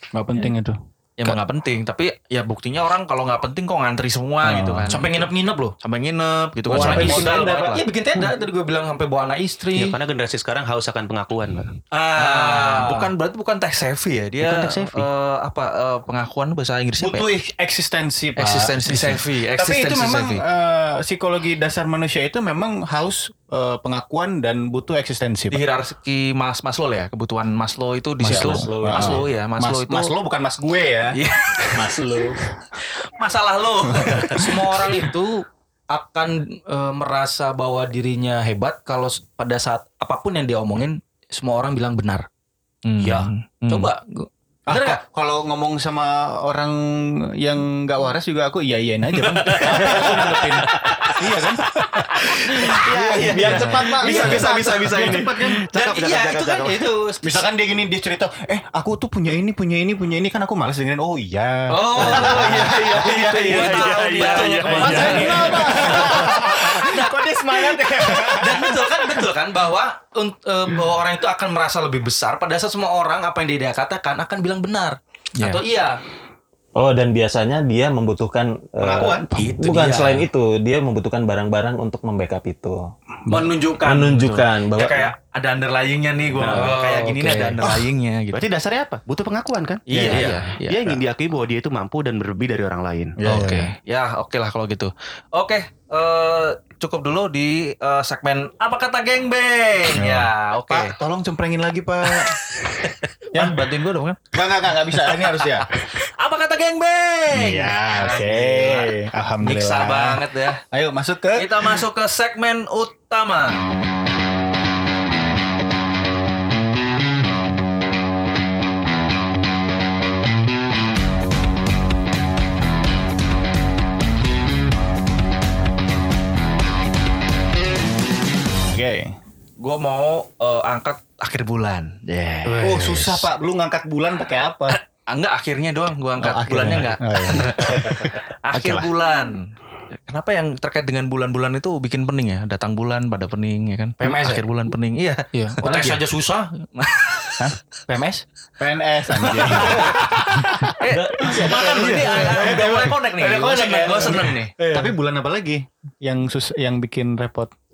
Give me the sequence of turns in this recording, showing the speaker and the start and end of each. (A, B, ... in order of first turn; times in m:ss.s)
0:00.1-0:01.4 A
0:01.2-0:05.3 B
0:04.4-0:05.1 A
0:04.9-0:05.8 C
0:05.8-0:07.8 B
0:06.7-0:07.7 D
0:06.7-0:07.4 A
0:06.8-0:10.0 C
0:09.8-0:11.8 E
0:11.9-0:17.3 B
0:12.2-0:13.1 C
0:14.4-0:15.1 E
0:17.0-0:25.6 A
0:18.4-0:20.4 B
0:25.5-0:30.1 B
0:28.2-0:31.2 A
0:28.2-0:29.3 D
0:31.1-0:32.0 B
0:31.7-0:32.4 D
0:32.8-0:35.0 B
0:33.9-0:34.3 A
0:34.3-0:42.3 C
0:42.8-0:43.9 B
0:43.0-0:45.0 C
0:44.7-0:55.3 A
0:49.1-0:51.2 B
0:52.0-0:52.8 B
0:52.7-0:56.9 E
0:53.5-0:57.5 C
0:57.2-1:03.0 A
1:01.7-1:16.0 C
1:02.0-1:05.5 E
1:03.0-1:06.3 B
1:04.7-1:09.3 A
1:16.8-1:22.9 D
1:18.8-1:19.5 E
1:19.4-1:20.2 C
1:23.2-1:23.5 A
1:23.3-1:28.4 B
1:23.8-1:25.1 D
1:26.4-1:26.8 E
1:26.5-1:27.6 C
1:28.3-1:33.2 E
1:29.9-1:31.0 B
1:29.9-1:30.4 A
1:33.2-1:33.7 A
1:33.2-1:41.0 B
1:40.0-1:43.6 A
1:42.1-1:44.2 B
1:44.3-1:45.8 A
1:45.1-1:50.6 B
1:47.3-1:51.8 A
1:51.4-1:53.6 B
2:08.6-2:09.2 A
2:09.6-2:13.3 B
2:12.5-2:14.8 A
2:14.7-2:19.5 B
2:16.2-2:18.9 A
2:20.1-2:26.1 B
2:24.0-2:24.4 C
2:25.4-2:26.5 C
2:26.8-2:27.5 B
2:27.4-2:37.5 A
2:29.2-2:34.6 B
2:30.8-2:32.5 D